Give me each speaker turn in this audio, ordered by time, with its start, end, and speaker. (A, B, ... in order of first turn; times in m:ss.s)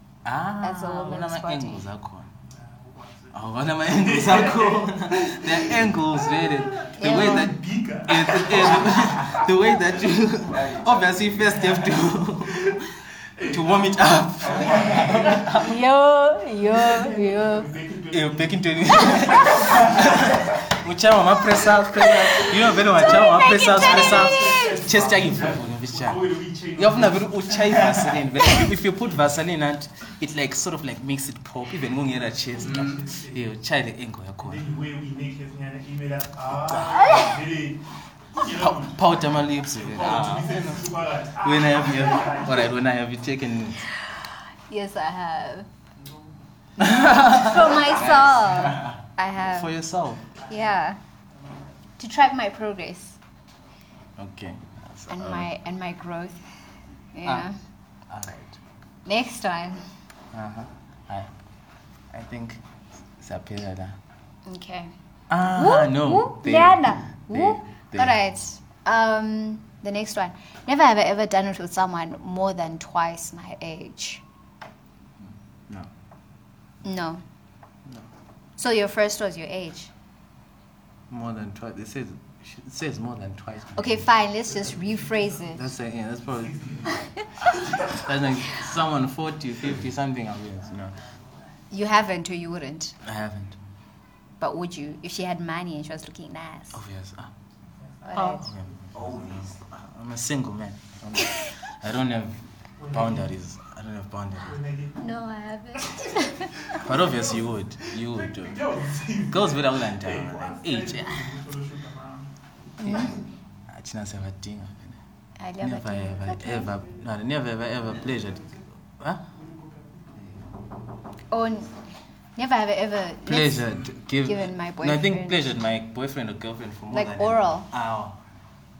0:00.2-0:02.3 A
0:00.6-0:01.9 B
0:02.5-0:09.8 C
0:03.3-0:12.8 A
0:07.0-0:07.5 B
0:11.4-0:12.8 C
0:13.4-0:15.6 C
0:13.4-0:15.7 A
0:15.6-0:17.7 B
0:16.7-0:20.6 C
0:18.1-0:34.7 A
0:22.0-0:24.7 B
0:23.5-0:28.7 C
0:32.6-0:33.4 C
0:34.4-0:39.1 C
0:37.0-0:37.4 B
0:38.4-0:43.9 A
0:39.7-0:42.7 C
0:43.9-0:45.7 B
0:46.0-0:47.0 C
0:46.8-0:50.3 A
0:46.9-0:49.7 B
0:50.4-0:50.8 C
0:50.5-0:51.0 B
0:52.0-0:53.2 B
0:54.2-0:55.5 A
0:55.1-0:56.4 B
0:57.1-0:57.6 B
0:58.1-0:58.6 A
0:59.1-0:59.8 B
1:00.3-1:01.3 A
1:02.1-1:02.6 A
1:03.2-1:04.0 A
1:04.5-1:04.9 B
1:05.3-1:08.2 A
1:05.5-1:14.2 B
1:15.2-1:15.9 A
1:16.8-1:17.2 B
1:18.6-1:19.9 B
1:21.1-1:24.1 A
1:23.8-1:25.7 B
1:24.4-1:25.6 C
1:25.5-1:26.8 A
1:26.3-1:28.2 C
1:27.5-1:31.0 A
1:31.7-1:33.0 B
1:33.0-1:33.6 A
1:34.4-1:36.8 B
1:36.7-1:37.3 A
1:38.0-1:38.4 C
1:38.0-1:38.5 B
1:38.2-1:44.6 A
1:39.0-1:39.4 C
1:42.8-1:43.3 C
1:44.4-1:45.1 C
1:45.0-1:46.6 B
1:45.8-1:52.3 C
1:46.7-1:51.4 A
1:52.8-1:53.2 B
1:53.7-1:55.0 A
1:55.4-1:56.7 B
1:55.6-1:59.2 A
1:58.0-1:58.7 C
1:59.3-2:00.2 C
2:01.3-2:01.7 B
2:02.4-2:03.7 B
2:03.3-2:08.2 A
2:04.2-2:05.5 B
2:06.9-2:07.7 B